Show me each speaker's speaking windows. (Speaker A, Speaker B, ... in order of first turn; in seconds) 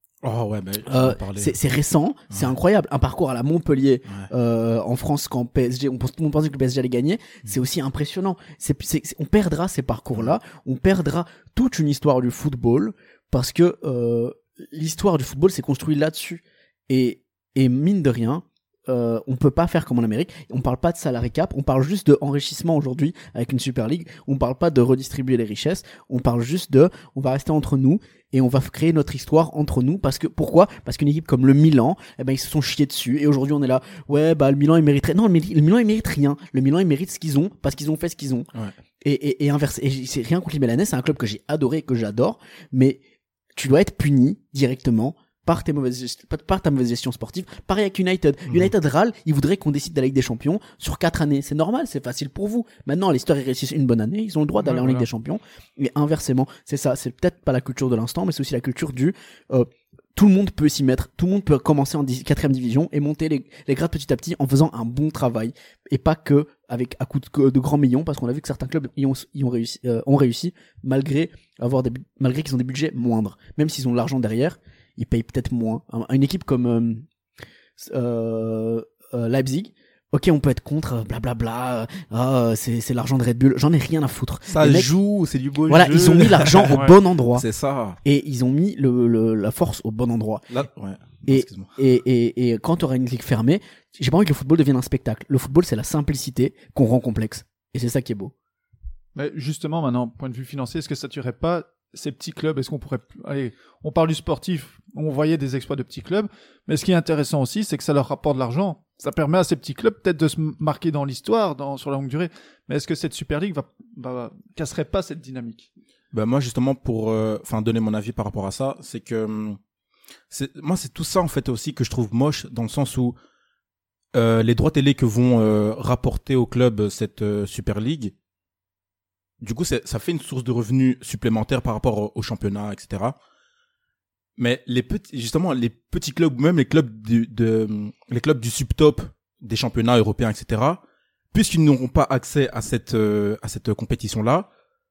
Speaker A: 0.2-1.5, 84.5-86.8, 87.3-88.0, 90.5-91.7, 116.1-119.6, 120.3-123.2, 124.1-128.1, 129.4-133.2, 134.4-144.5
Speaker B: 0.8-38.5, 39.0-43.0, 43.5-77.0, 77.8-84.9, 85.7-87.4, 88.0-90.5, 91.3-98.3
Speaker C: 54.6-55.0, 86.7-86.9, 99.2-115.7